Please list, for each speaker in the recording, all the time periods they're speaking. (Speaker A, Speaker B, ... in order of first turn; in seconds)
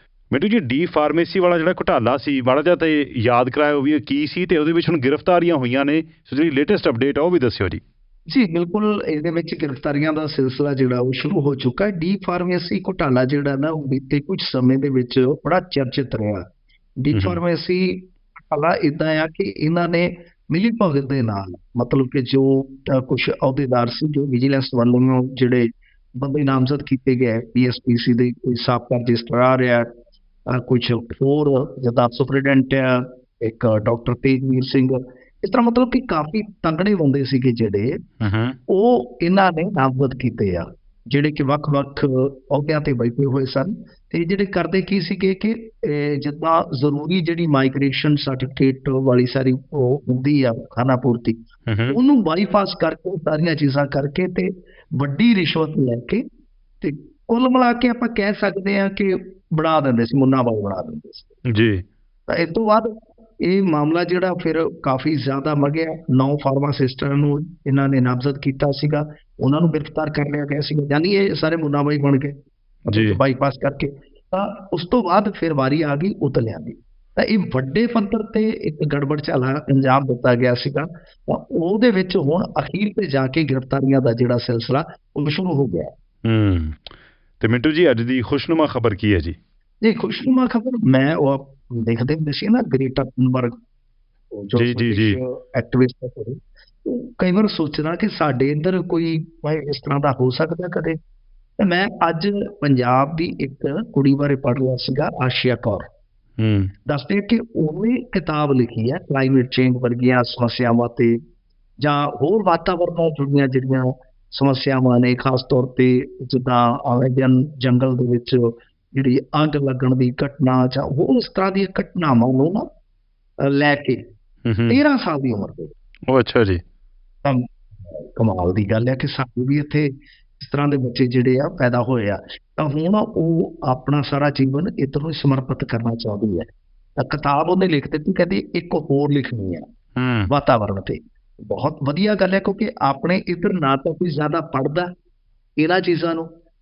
Speaker A: 0.3-7.8, 17.1-17.4, 38.2-38.6, 51.7-52.0, 61.5-61.8, 72.9-73.2, 86.3-86.9, 87.4-89.4, 94.5-95.2, 106.4-106.7, 124.5-124.8, 126.1-126.6, 140.0-140.3
Speaker B: 8.3-16.4, 17.0-29.9, 30.5-38.0, 38.7-56.2, 56.8-61.3, 62.3-62.9, 63.4-72.3, 72.9-85.9, 89.8-93.5, 94.3-101.0, 101.6-105.9, 106.8-111.2, 111.8-122.7, 123.4-124.0, 124.7-125.7, 127.2-139.6, 140.3-144.9, 145.6-146.3